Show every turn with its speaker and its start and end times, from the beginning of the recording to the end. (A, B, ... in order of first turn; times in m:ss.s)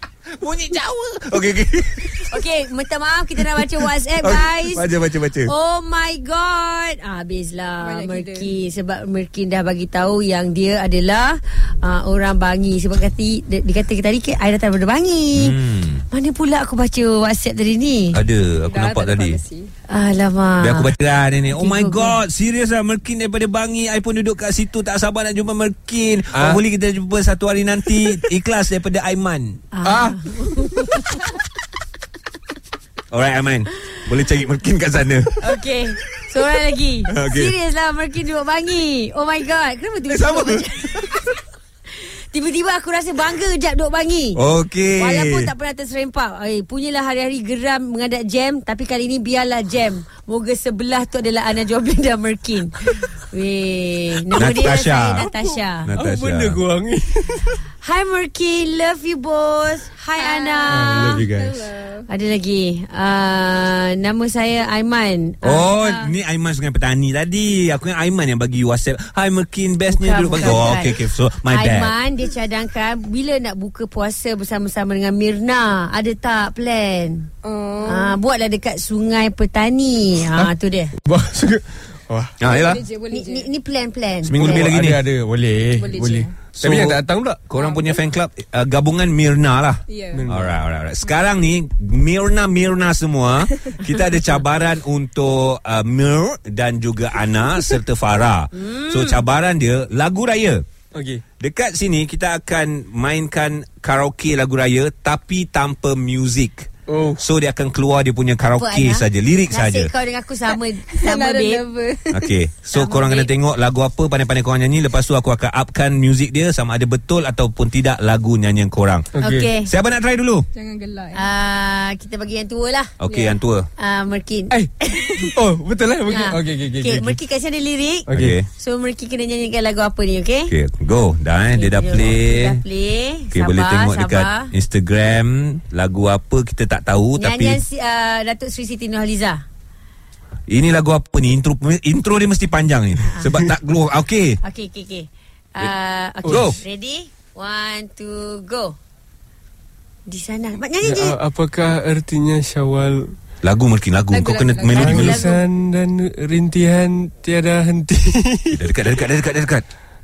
0:00.4-0:02.4 A
0:02.2-0:04.9 B
0:04.2-0:05.5 A
0:05.4-0:15.6 B
0:07.8-0:08.5 C
0:15.3-0:16.0 A
0:16.1-0:18.2 B
0:18.1-0:19.4 A
0:18.6-0:19.7 C
0:19.9-0:20.9 B
0:20.6-0:30.0 A
0:21.6-0:22.2 B
0:26.3-0:26.6 D
0:29.7-0:31.3 B
0:33.1-0:35.6 A
0:35.4-0:41.4 B
0:37.1-0:37.5 A
0:40.1-0:41.1 A
0:41.9-0:44.4 B
0:44.3-0:45.5 A
0:45.0-0:55.9 B
0:54.4-0:55.3 A
0:55.8-0:56.6 A
0:55.9-0:57.6 D
0:57.8-1:01.2 B
1:00.2-1:02.1 C
1:00.7-1:01.6 D
1:02.1-1:06.1 B
1:05.4-1:12.0 A
1:09.9-1:17.3 B
1:17.4-1:18.2 C
1:17.8-1:20.9 B
1:20.3-1:22.4 D
1:22.4-1:22.8 A
1:22.4-1:23.5 C
1:23.1-1:24.7 B
1:24.2-1:25.0 A
1:24.3-1:27.4 D
1:25.8-1:26.5 C
1:26.5-1:40.6 A
1:27.5-1:28.0 C
1:29.9-1:30.2 C
1:30.1-1:30.5 D
1:38.6-1:39.2 B
1:40.9-1:41.2 D
1:41.4-1:49.9 A
1:46.9-1:47.2 D
1:48.5-1:51.6 B
1:50.9-1:52.4 C
1:52.1-2:00.5 A
1:52.7-1:53.3 B
1:59.2-1:59.5 D
1:59.2-1:59.7 B
2:00.5-2:01.3 C
2:01.1-2:02.9 B
2:03.0-2:03.7 A
2:03.1-2:03.4 C
2:03.8-2:05.4 B
2:04.5-2:07.2 D
2:06.1-2:10.5 B
2:08.1-2:08.4 D
2:08.1-2:08.5 A
2:10.5-2:12.6 A
2:11.5-2:14.5 B
2:13.3-2:17.6 A
2:17.2-2:19.4 B
2:20.5-2:24.4 A
2:23.1-2:23.3 B
2:24.4-2:28.8 B
2:26.2-2:26.6 D
2:26.2-2:26.6 A
2:30.1-2:31.2 B
2:30.8-2:33.1 D
2:33.4-2:35.2 A
2:34.1-2:35.3 C
2:34.7-2:35.4 B
2:34.7-2:38.6 D
2:38.5-2:39.6 A